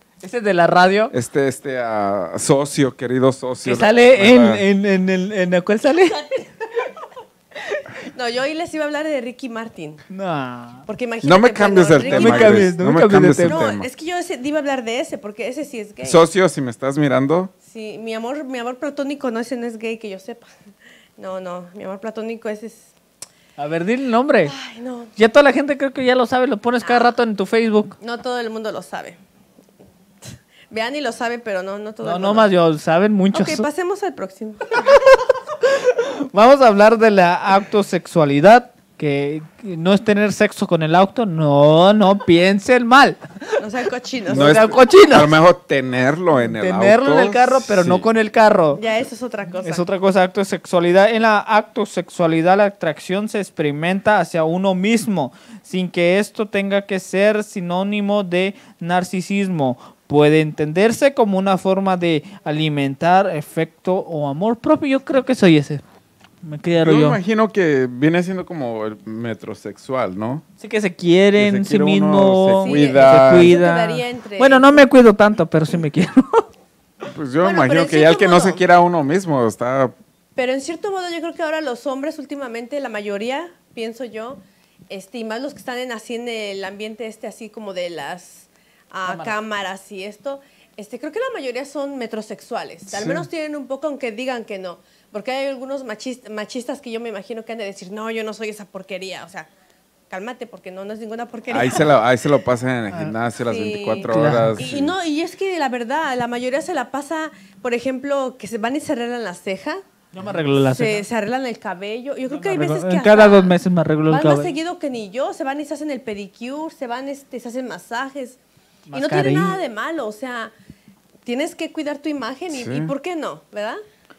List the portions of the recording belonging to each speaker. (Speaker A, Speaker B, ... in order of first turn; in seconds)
Speaker A: 0.2-1.1, 3.6-6.3, 10.1-10.8, 12.1-13.6, 23.6-24.5, 25.2-28.0, 32.0-33.7, 34.8-43.6, 44.3-45.4, 46.5-48.8, 49.6-65.8, 66.4-67.2, 70.6-76.5, 89.1-89.3, 104.1-104.7, 110.1-111.1, 112.3-114.5, 118.9-119.5
Speaker B: 1.1-4.6, 11.2-13.9, 16.0-17.5, 44.3-48.1, 66.8-70.4, 71.4-73.5, 77.1-79.9, 92.9-93.3, 101.5-104.9, 122.5-122.9
Speaker C: 8.0-10.0, 10.9-12.8, 13.4-16.2, 17.6-20.5, 21.2-22.9, 24.5-25.1, 26.8-27.2, 28.0-29.2, 30.2-32.5, 33.3-35.0, 43.6-44.6, 48.8-49.9, 72.6-74.9, 77.4-78.6, 80.4-99.5, 100.1-101.9, 103.4-109.8, 110.6-113.5, 114.1-118.4, 119.0-120.5, 121.2-123.8